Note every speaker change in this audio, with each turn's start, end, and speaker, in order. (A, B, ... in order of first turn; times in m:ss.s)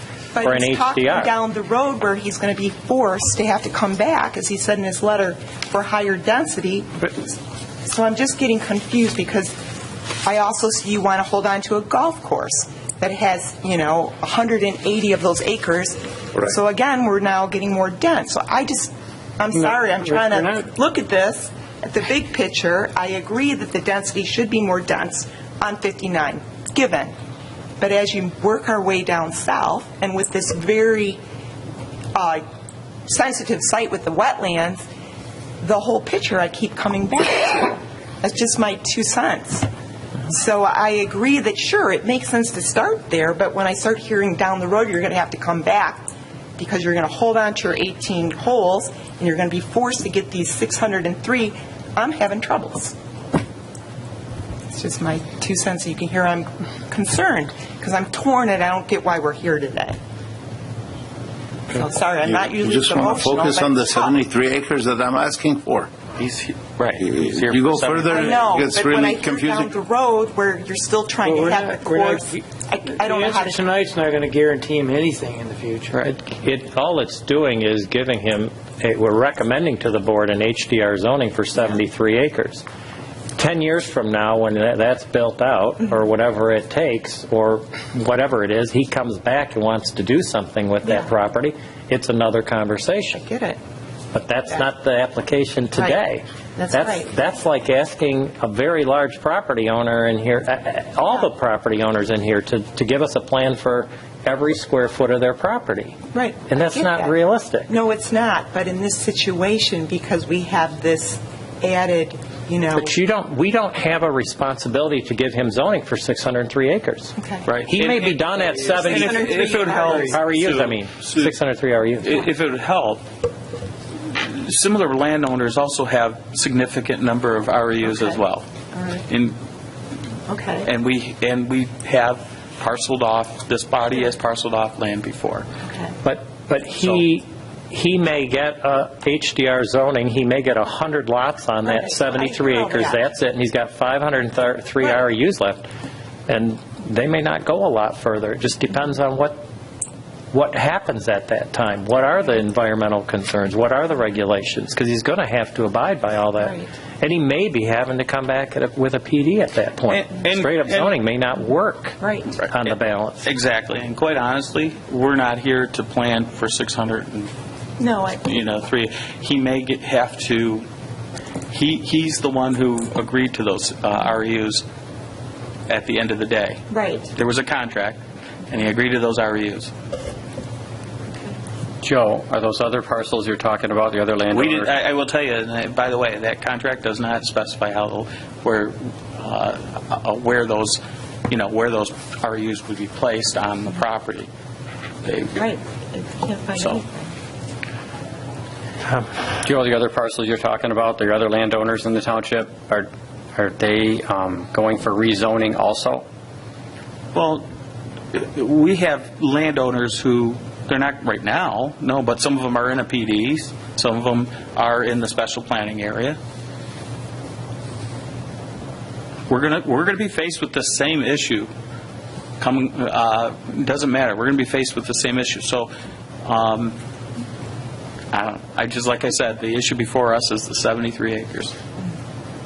0:00.3-0:09.6 A
0:00.4-0:01.4 B
0:10.2-0:27.1 A
0:27.8-0:31.2 A
0:32.2-0:32.4 A
0:33.1-0:34.8 A
0:35.6-0:39.7 A
0:40.3-0:53.0 A
0:54.7-1:00.0 A
1:01.7-1:04.2 A
1:02.2-1:05.9 C
1:06.2-1:08.5 D
1:07.0-1:09.7 C
1:08.1-1:13.7 A
1:11.2-1:12.2 E
1:13.0-1:16.0 E
1:15.9-1:22.6 B
1:23.4-1:33.2 B
1:30.8-1:31.1 A
1:33.1-1:33.6 A
1:34.1-1:46.0 B
1:36.6-1:37.1 A
1:46.1-1:47.2 A
1:46.5-1:47.7 B
1:47.7-1:53.0 A
1:52.7-1:59.3 B
1:57.2-1:57.5 A
1:57.5-2:01.3 D
1:58.7-2:00.2 A
1:59.9-2:02.2 B
2:02.0-2:03.0 D
2:04.1-2:08.4 D
2:07.9-2:08.2 A
2:08.7-2:09.1 A
2:09.1-2:09.4 D
2:10.3-2:10.7 A
2:10.6-2:15.4 D
2:15.7-2:16.0 A
2:16.0-2:25.7 B
2:21.6-2:23.0 A
2:26.3-2:29.4 B
2:30.3-2:43.2 B
2:36.4-2:36.7 A
2:39.9-2:41.0 D
2:42.0-2:42.3 A
2:42.6-2:47.3 D
2:47.8-2:48.2 A
2:48.2-2:50.6 D
2:51.5-2:54.6 D
2:55.7-2:56.6 D
2:56.7-2:57.1 A
2:57.1-2:58.0 D
2:58.5-2:59.7 D
3:01.8-3:04.7 F
3:04.3-3:14.3 D
3:15.0-3:15.5 D
3:15.4-3:17.1 A
3:18.9-3:26.0 F
3:27.1-3:27.4 D
3:28.1-3:36.2 D
3:39.3-3:41.5 D
3:42.4-3:45.7 D
3:46.2-3:46.8 D
3:48.1-3:51.5 D